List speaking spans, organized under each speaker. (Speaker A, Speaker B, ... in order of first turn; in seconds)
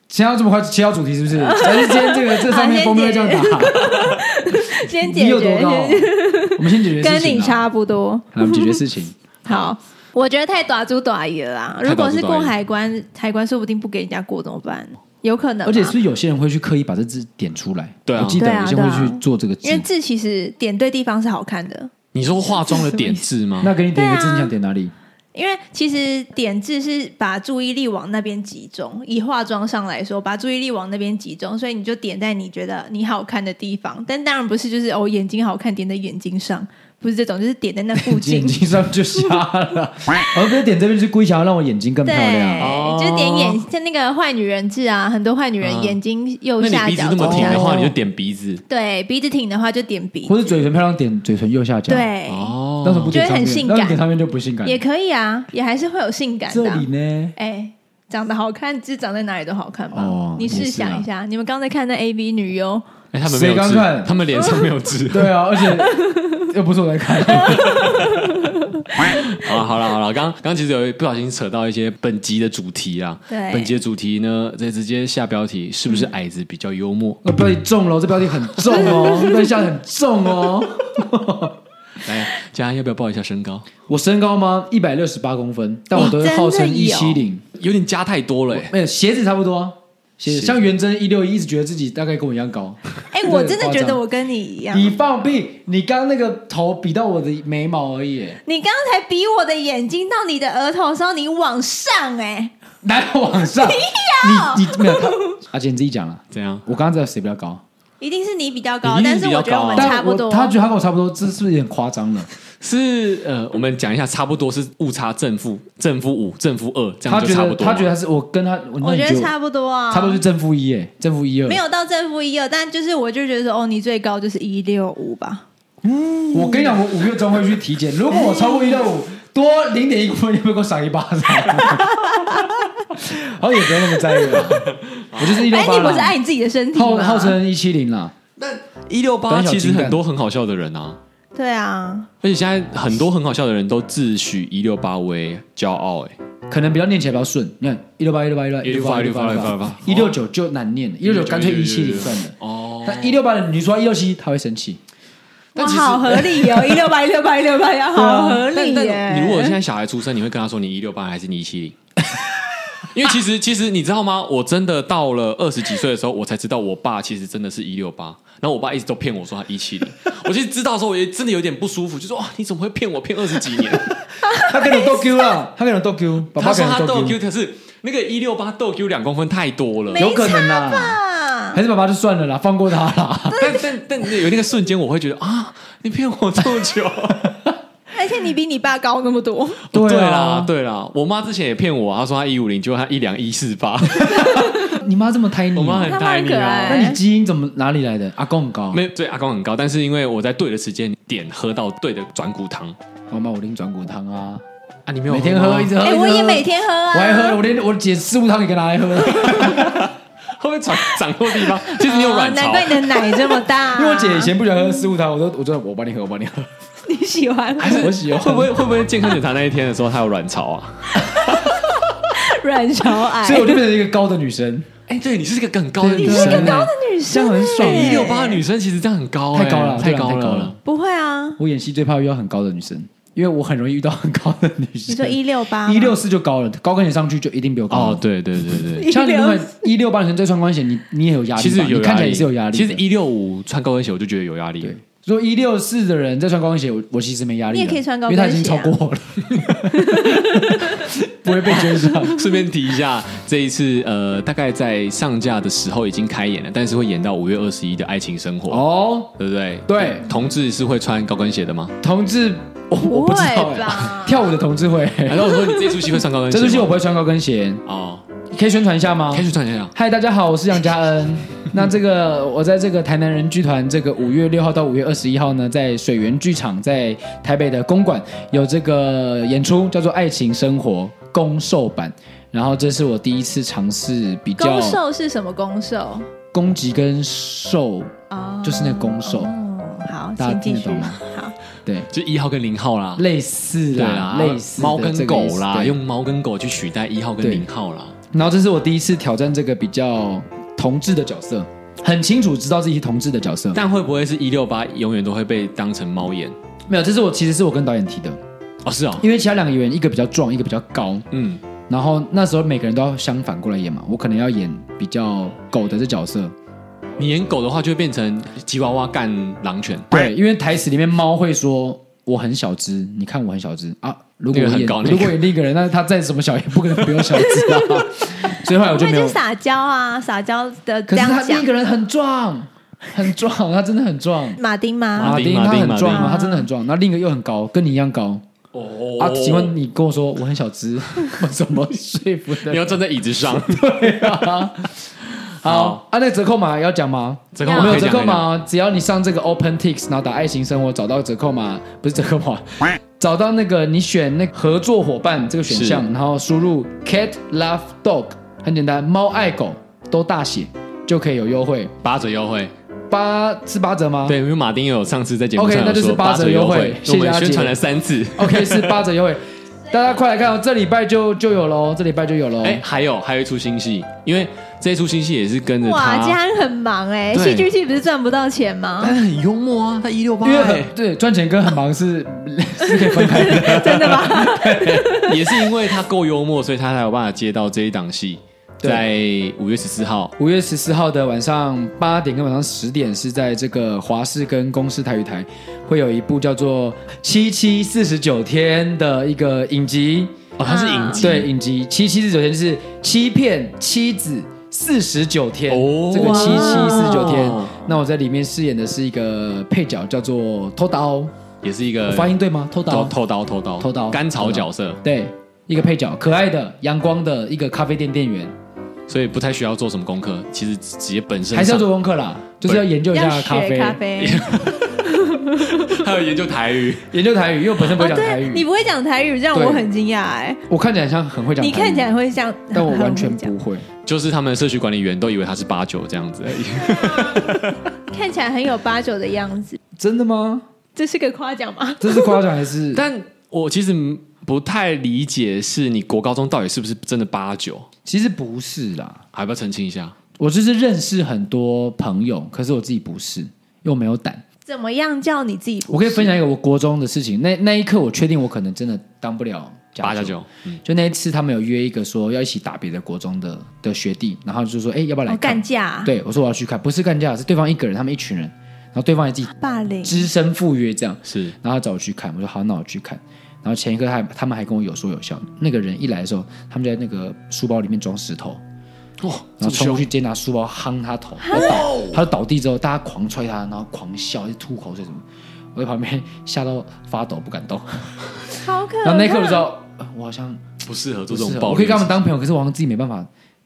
Speaker A: 0.1-4.2, 4.8-7.7, 8.3-9.2, 15.7-19.9, 23.6-24.9, 38.0-42.8, 47.2-47.9, 50.3-52.1, 52.8-54.8, 56.5-57.4, 59.9-61.1, 63.3-64.2, 65.1-68.1, 77.2-81.6, 83.9-87.4, 88.5-94.0, 94.7-98.4, 102.8-107.6, 109.7-112.3, 117.0-119.3, 119.9-121.6, 125.8-136.2, 136.7-138.1, 139.3-140.0, 146.5-154.8, 173.7-177.2, 179.9-181.0, 181.5-183.6, 189.7-190.5, 194.1-196.0, 196.7-198.8, 203.1-204.4, 205.1-209.9, 213.7-216.5, 217.6-218.6, 223.1-224.7, 225.8-228.2, 229.3-230.6, 231.4-238.0, 238.8-242.8, 244.6-252.2, 258.5-259.1, 259.7-260.1, 261.8-265.5, 266.3-267.6, 268.3-284.8, 286.3-287.9, 288.4-289.3, 290.2-291.0, 293.0-295.8, 297.2-297.5, 298.1-303.6, 306.7-308.2, 309.0-311.1, 311.7-316.4, 319.9-329.2, 330.9-334.4, 335.0-338.2, 339.0-344.7, 345.4-361.7, 362.9-364.2, 365.4-367.6, 368.2-372.6, 380.2-385.0, 388.6-388.9, 390.2-400.2, 401.0-411.1, 411.9-413.0, 413.6-418.3, 421.3-423.9, 426.9-428.5, 429.3-429.7, 430.5-432.0, 432.5-433.7, 439.8-440.4, 441.8-442.9, 447.9-449.0, 450.2-454.2, 455.7-478.4, 479.4-490.4, 491.1-493.1
Speaker B: 1.4-8.8, 9.4-15.9, 18.3-21.9, 22.5-23.3, 23.9-24.5, 25.3-38.7, 42.0-47.9, 48.7-50.4, 51.9-52.5, 53.1-54.0, 54.6-62.9, 65.8-66.3, 67.4-68.6, 73.3-73.8, 78.7-79.5, 85.9-87.2, 93.1-94.9, 98.5-102.5, 103.5-105.4, 108.0-110.5, 118.8-120.2, 121.5-125.5, 128.1-128.7, 132.0-132.5, 134.1-134.4, 135.2-137.4, 141.3-142.1, 155.6-159.6, 174.3-175.3, 179.9-181.6, 183.3-183.6, 187.9-189.6, 195.8-197.0, 205.8-207.4, 211.8-214.8, 216.8-217.9, 221.0-223.7, 226.0-228.4, 230.6-231.4, 234.9-236.0, 238.8-239.7, 247.5-248.8, 249.8-250.6, 262.8-264.3, 284.4-286.1, 288.1-291.3, 327.2-331.5, 334.4-335.2, 335.9-336.5, 347.4-347.9, 375.6-379.0, 382.9-385.4, 400.4-401.0, 406.0-407.1, 422.9-424.3, 424.9-425.8, 427.8-430.4, 431.4-433.3, 436.9-437.4, 437.9-439.6, 440.8-442.2, 454.5-456.2, 465.1-465.9, 469.4-470.1, 481.2-481.7, 488.4-489.5
Speaker C: 9.5-9.7, 11.8-12.6, 18.1-18.4, 22.1-23.8, 42.6-43.6, 45.6-46.0, 46.6-48.6, 52.3-53.4, 63.1-65.4, 67.3-68.3, 69.0-77.2, 78.5-79.2, 82.0-83.7, 87.6-88.7, 90.3-90.7, 106.3-106.6, 108.8-110.0, 112.6-117.9, 134.6-135.4, 138.4-141.0, 142.2-146.2, 148.6-150.2, 151.0-153.2, 155.6-156.8, 157.9-161.8, 162.9-174.0, 176.3-180.1, 183.3-187.3, 189.7-194.7, 195.5-196.9, 198.7-202.8, 204.9-205.8, 209.1-213.4, 217.6-221.8, 224.9-226.7, 227.6-230.6, 237.7-238.9, 241.4-244.8, 251.3-258.6, 259.2-261.7, 265.1-266.9, 267.7-268.0, 269.1-269.7, 291.9-293.1, 293.7-298.0, 303.5-306.4, 308.6-309.1, 311.1-311.4, 317.0-319.9, 324.3-325.3, 335.0-336.2, 338.5-339.6, 342.4-344.4, 345.4-345.8, 347.3-348.3, 355.5-355.8, 361.8-362.5, 364.1-368.9, 372.4-376.2, 377.1-377.5, 378.8-380.7, 383.1-384.2, 384.9-390.1, 400.4-401.3, 405.5-407.8, 411.4-412.1, 412.7-414.8, 418.9-421.7, 422.4-422.7, 424.0-426.9, 433.8-437.6, 442.7-447.7, 449.1-450.0, 459.8-460.6, 471.1-471.4, 479.0-479.9, 481.3-482.0, 490.6-491.9